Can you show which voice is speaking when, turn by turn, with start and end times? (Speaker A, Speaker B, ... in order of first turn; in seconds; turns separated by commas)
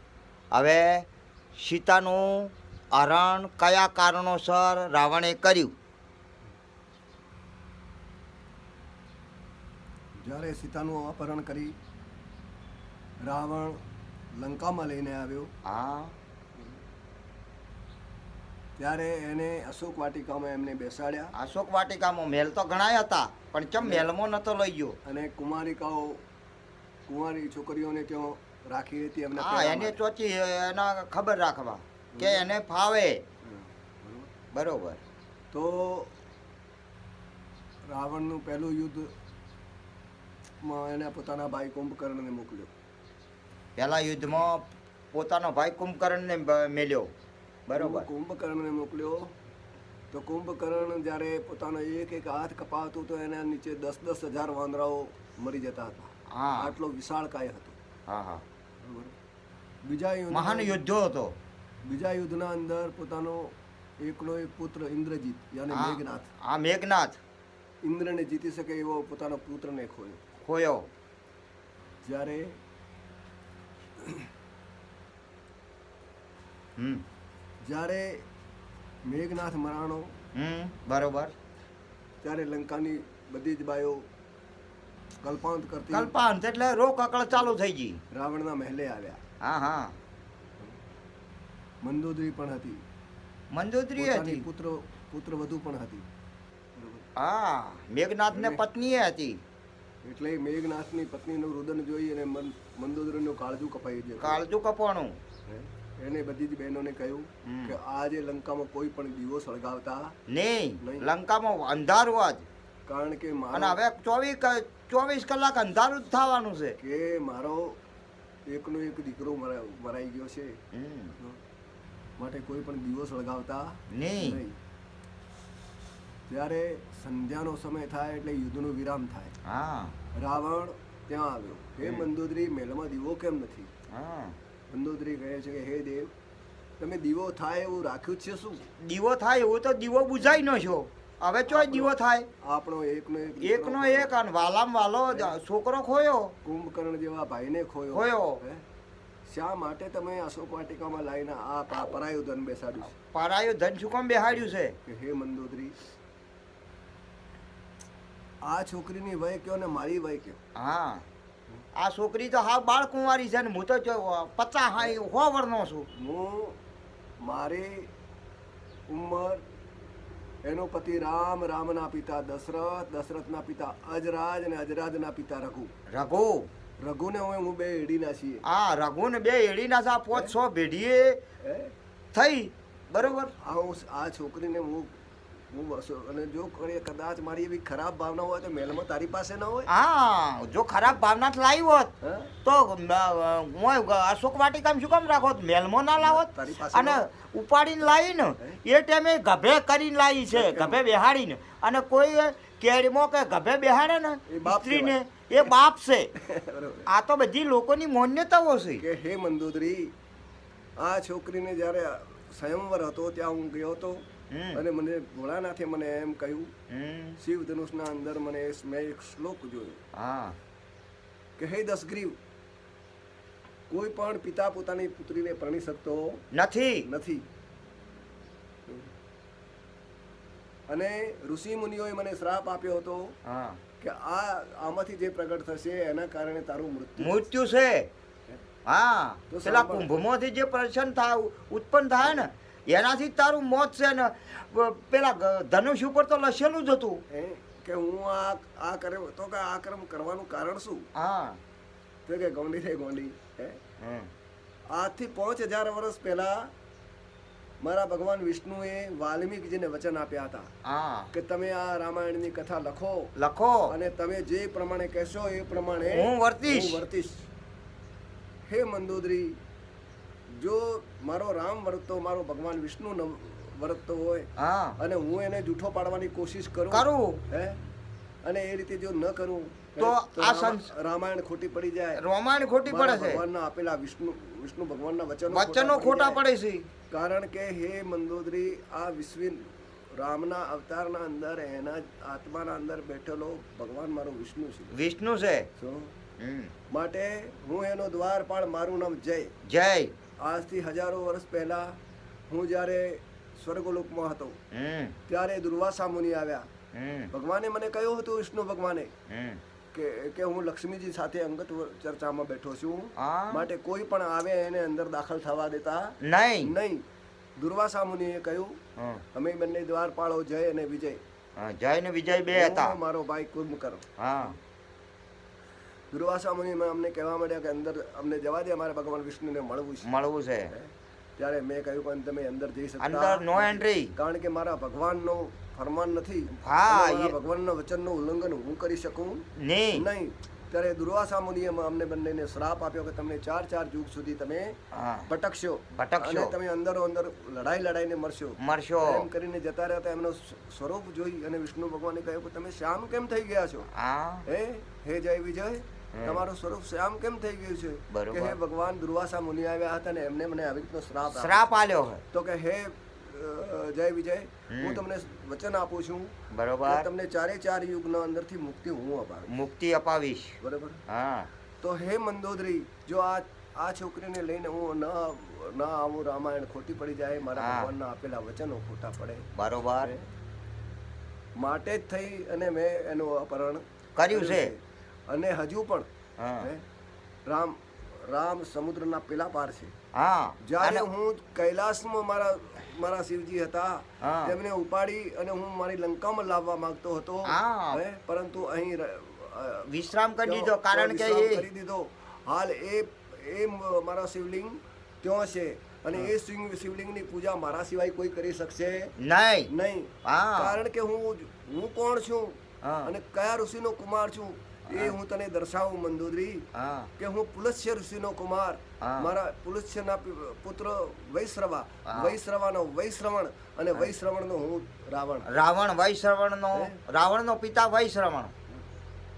Speaker A: 0.5-5.7, Speaker B: 10.2-11.7, Speaker B: 13.2-13.8, Speaker B: 14.4-15.5, Speaker A: 15.7-16.1, Speaker B: 18.8-21.3, Speaker A: 21.3-25.0, Speaker B: 23.8-24.1, Speaker B: 25.1-26.2, Speaker B: 27.1-30.0, Speaker A: 29.4-33.2, Speaker B: 32.1-32.5, Speaker B: 33.4-34.3, Speaker A: 34.5-35.0, Speaker B: 35.5-36.2, Speaker B: 37.9-39.1, Speaker B: 40.6-42.7, Speaker A: 43.8-47.1, Speaker A: 47.7-48.1, Speaker B: 47.7-49.3, Speaker B: 50.1-57.7, Speaker A: 56.3-56.7, Speaker A: 58.1-58.4, Speaker B: 58.8-59.1, Speaker B: 59.8-60.8, Speaker A: 60.3-61.3, Speaker B: 61.8-66.3, Speaker A: 65.7-67.2, Speaker B: 67.8-70.2, Speaker A: 70.4-70.9, Speaker B: 72.0-72.6, Speaker B: 74.0-74.3, Speaker A: 76.8-77.0, Speaker B: 77.7-78.3, Speaker B: 79.0-80.2, Speaker A: 80.3-81.3, Speaker B: 82.2-84.0, Speaker B: 85.2-86.1, Speaker A: 85.9-88.0, Speaker B: 88.1-89.2, Speaker A: 89.4-90.0, Speaker B: 91.8-92.8, Speaker A: 93.5-94.5, Speaker B: 94.0-96.0, Speaker B: 96.8-97.1, Speaker A: 97.2-99.4, Speaker B: 98.3-98.6, Speaker B: 100.0-104.4, Speaker A: 104.2-105.2, Speaker B: 105.5-110.1, Speaker A: 107.5-107.8, Speaker A: 110.3-112.5, Speaker B: 110.8-111.1, Speaker B: 112.9-113.8, Speaker A: 113.5-116.8, Speaker B: 116.8-117.8, Speaker B: 118.5-120.6, Speaker A: 120.7-121.2, Speaker B: 122.2-124.6, Speaker A: 123.9-124.4, Speaker B: 126.3-129.3, Speaker A: 129.4-129.9, Speaker B: 130.1-133.7, Speaker A: 133.9-134.3, Speaker B: 134.7-136.1, Speaker B: 136.8-138.7, Speaker A: 138.8-142.3, Speaker B: 141.5-144.2, Speaker A: 143.4-146.3, Speaker B: 145.1-145.4, Speaker B: 146.4-148.6, Speaker A: 147.9-148.4, Speaker B: 149.3-152.9, Speaker A: 152.9-154.8, Speaker B: 154.8-155.8, Speaker B: 158.4-160.4, Speaker A: 160.6-161.0, Speaker A: 161.8-165.9, Speaker B: 165.9-166.6, Speaker B: 167.2-167.9, Speaker B: 168.9-169.4, Speaker B: 170.4-175.7, Speaker A: 175.9-176.5, Speaker B: 176.8-178.4, Speaker A: 178.4-181.2, Speaker B: 181.4-181.7, Speaker A: 182.1-183.3, Speaker B: 183.4-189.7, Speaker A: 189.7-191.9, Speaker B: 192.0-192.3, Speaker A: 192.4-206.1, Speaker B: 196.0-197.0, Speaker B: 200.3-200.8, Speaker B: 204.3-205.5, Speaker B: 206.1-206.9, Speaker A: 206.9-208.8, Speaker B: 208.8-209.9, Speaker B: 210.8-216.5, Speaker A: 214.3-214.6, Speaker A: 216.7-217.2, Speaker B: 217.2-219.8, Speaker A: 219.9-220.3, Speaker B: 221.4-222.2, Speaker B: 223.7-226.2, Speaker A: 226.3-226.9, Speaker B: 226.8-227.2, Speaker B: 230.7-233.2, Speaker A: 233.2-233.6, Speaker B: 233.8-237.2, Speaker A: 237.0-237.9, Speaker A: 238.7-247.0, Speaker B: 239.3-240.0, Speaker B: 247.1-250.9, Speaker A: 250.9-251.4, Speaker B: 252.1-253.6, Speaker A: 253.8-254.1, Speaker B: 254.7-256.5, Speaker B: 257.6-260.5, Speaker A: 260.6-261.1, Speaker B: 261.1-263.1, Speaker A: 263.1-263.7, Speaker B: 263.7-267.3, Speaker A: 265.9-266.8, Speaker B: 268.5-269.4, Speaker B: 270.3-277.6, Speaker A: 274.4-274.8, Speaker A: 276.7-277.2, Speaker B: 278.2-282.0, Speaker A: 279.8-280.7, Speaker A: 282.0-283.2, Speaker B: 282.7-286.2, Speaker A: 285.3-286.7, Speaker B: 286.9-294.8, Speaker A: 294.7-295.5, Speaker B: 295.6-295.9, Speaker A: 296.2-296.5, Speaker B: 296.7-299.3, Speaker A: 299.4-299.9, Speaker B: 300.2-301.8, Speaker B: 302.3-304.4, Speaker A: 304.5-304.9, Speaker B: 305.1-306.5, Speaker A: 306.7-307.1, Speaker B: 307.1-308.9, Speaker A: 309.1-309.4, Speaker B: 309.7-316.8, Speaker A: 313.0-313.5, Speaker A: 316.0-316.5, Speaker B: 317.4-318.6, Speaker A: 318.8-319.0, Speaker B: 319.1-321.0, Speaker A: 321.4-322.8, Speaker B: 322.3-323.9, Speaker A: 324.0-324.4, Speaker B: 325.9-329.9, Speaker A: 329.8-330.5, Speaker B: 330.5-353.7, Speaker A: 332.8-333.9, Speaker A: 336.4-337.1, Speaker A: 339.4-339.9, Speaker A: 344.7-345.1, Speaker A: 345.7-346.3, Speaker A: 348.4-349.0, Speaker A: 353.7-354.2, Speaker B: 354.3-361.5, Speaker A: 355.9-356.2, Speaker A: 357.9-358.4, Speaker A: 361.1-362.0, Speaker B: 362.1-369.3, Speaker A: 364.5-364.8, Speaker A: 366.3-366.9, Speaker A: 369.3-370.4, Speaker B: 370.4-370.8, Speaker A: 370.9-371.3, Speaker B: 371.6-379.2, Speaker A: 377.4-377.7, Speaker A: 379.3-379.9, Speaker B: 379.8-380.1, Speaker B: 381.4-385.9, Speaker A: 383.9-384.5, Speaker A: 386.2-386.5, Speaker B: 387.2-389.7, Speaker A: 389.9-390.9, Speaker B: 390.4-399.7, Speaker A: 394.0-394.4, Speaker A: 397.2-397.8, Speaker A: 399.7-401.4, Speaker B: 400.2-408.9, Speaker A: 409.0-409.5, Speaker B: 409.5-416.4, Speaker A: 410.1-410.6, Speaker A: 412.6-412.9, Speaker A: 416.5-416.9, Speaker B: 417.0-425.3, Speaker A: 418.8-419.1, Speaker A: 421.9-422.1, Speaker A: 425.3-428.3, Speaker B: 426.5-426.8